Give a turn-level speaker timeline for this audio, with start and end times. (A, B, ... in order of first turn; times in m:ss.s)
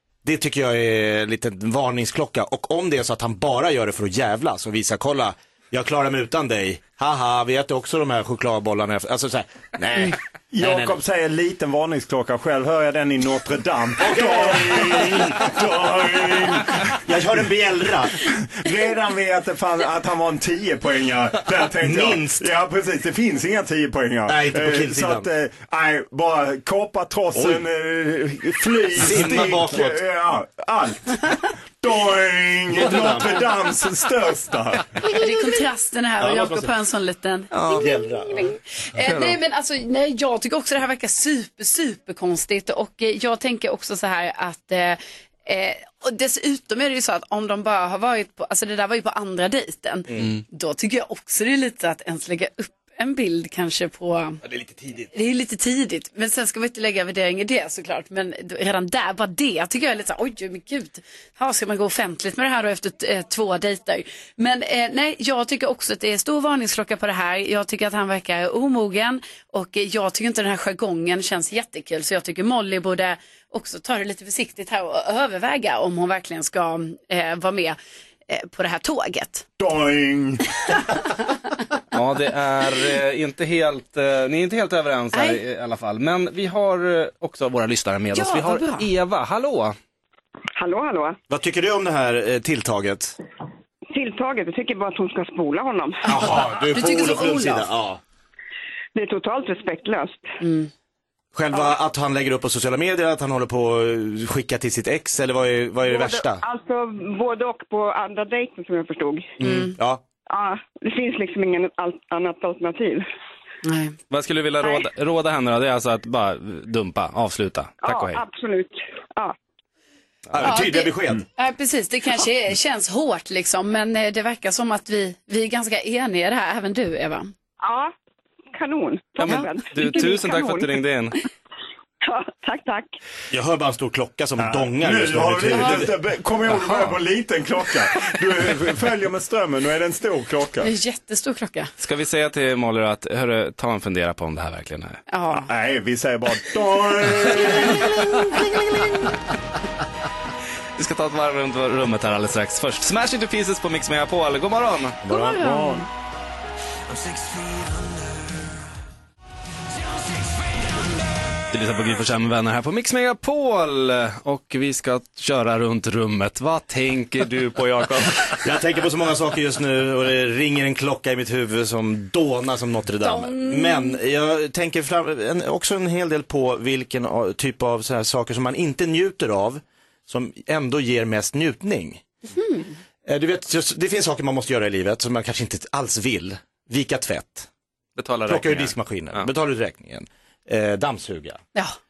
0:00.2-0:11.0 A
0:10.5-0:17.0 B
0:14.0-0:15.6 A
0:16.8-0:18.2 A
0:18.2-0:35.1 B
0:21.8-0:22.5 A
0:24.3-0:25.3 A
0:27.3-0:27.6 A
0:28.9-0:30.0 A
0:32.7-0:33.5 A
0:35.0-0:54.4 C
0:36.2-0:36.7 A
0:37.6-0:38.5 A
0:39.1-0:39.3 D
0:54.4-0:55.1 A
0:55.1-1:17.8 C
1:18.3-1:19.4 C
1:19.6-1:21.0 B
1:21.9-1:29.7 D
1:25.1-1:25.4 C
1:28.1-1:28.8 C
1:30.6-1:31.2 E
1:31.3-1:33.2 A
1:33.9-1:36.3 E
1:36.0-1:38.0 A
1:36.3-1:37.7 C
1:38.9-1:40.3 E
1:40.4-1:40.7 C
1:41.3-1:46.4 A
1:45.8-1:49.4 E
1:49.4-1:49.8 C
1:49.4-1:50.0 A
1:50.2-1:53.0 E
1:53.6-1:53.9 C
1:54.1-1:58.2 D
1:57.8-1:59.3 E
2:00.3-2:01.2 A
2:00.4-2:07.3 C
2:07.6-2:07.9 E
2:08.5-2:10.9 E
2:09.2-2:11.2 D
2:12.0-2:13.0 E
2:13.3-2:16.0 A
2:14.4-2:20.7 B
2:16.6-2:17.0 D
2:20.6-2:21.7 C
2:21.8-2:25.0 D
2:25.1-2:25.5 C
2:25.4-2:28.4 B
2:27.6-2:28.9 C
2:30.8-2:35.0 D
2:35.1-2:35.9 C
2:35.1-2:35.4 A
2:35.1-2:35.8 B
2:41.5-2:48.4 D
2:48.4-3:02.0 A
2:53.0-2:54.0 C
3:02.4-3:02.7 C
3:03.0-3:07.5 A
3:08.0-3:09.3 D
3:08.3-3:11.4 A